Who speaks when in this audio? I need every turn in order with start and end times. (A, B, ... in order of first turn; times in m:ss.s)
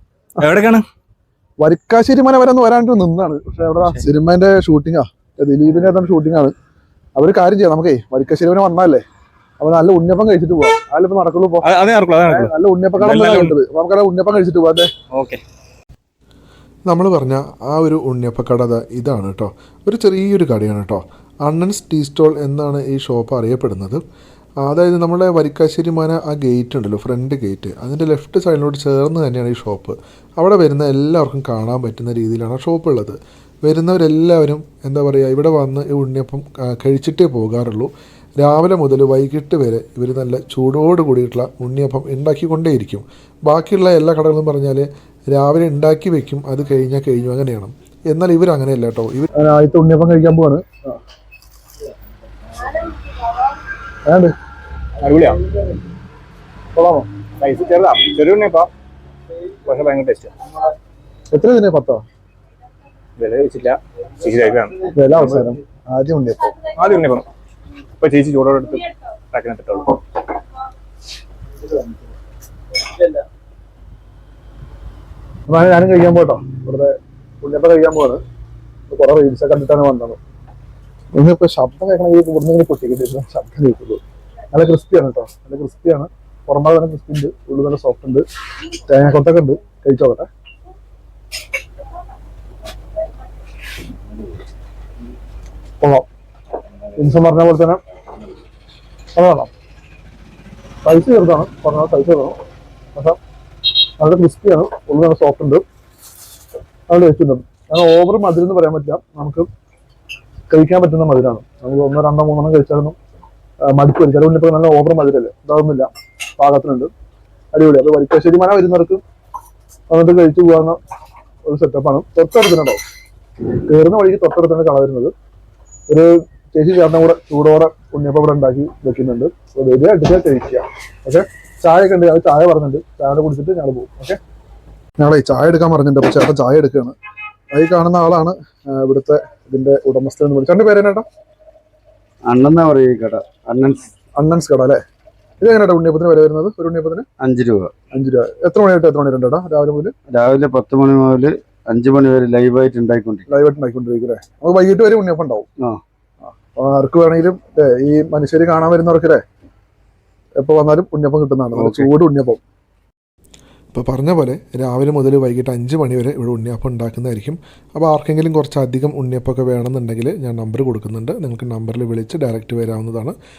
0:00.4-0:00.8 A
0:01.6-0:06.5 B
0:07.2-0:09.0 B
0:09.6-0:11.6 B
0:11.6-0:13.5 A
0:12.3-0:14.9 B
0:15.1-0:15.4 A
0:16.9-0:24.0 C
0:24.6-0:49.3 C
0:49.4-0:51.0 B
0:54.0-0:54.3 B
0:55.0-0:55.4 A
0:56.7-0:57.1 B
0:57.4-0:58.7 A
0:59.7-1:00.3 A
1:01.3-1:02.0 B
1:03.2-1:05.5 A
1:04.9-1:06.6 B
1:06.7-1:07.3 A
1:08.0-1:10.0 A
1:15.5-1:18.2 B
1:18.9-1:20.2 B
1:21.1-1:28.2 B
1:28.9-1:30.3 B
1:35.8-1:36.0 B
1:37.0-1:37.8 B
1:39.1-1:39.5 B
1:40.8-1:42.4 B
1:44.0-1:45.6 B
1:46.9-1:49.4 B
1:50.5-1:53.0 B
1:53.7-1:56.9 B
1:57.5-1:59.0 B
1:59.9-2:00.8 B
2:01.4-2:02.8 B
2:03.6-2:05.1 B
2:05.9-2:14.2 B
2:15.0-2:17.0 B
2:17.5-2:21.1 B
2:22.2-2:23.8 D
2:24.2-2:24.8 B
2:25.4-2:27.0 B
2:27.2-2:27.7 D
2:27.9-2:29.9 B
2:30.1-2:33.2 D
2:33.3-2:35.5 B
2:36.3-2:39.2 B
2:40.4-2:42.4 B
2:41.6-2:41.9 D
2:43.7-2:53.2 C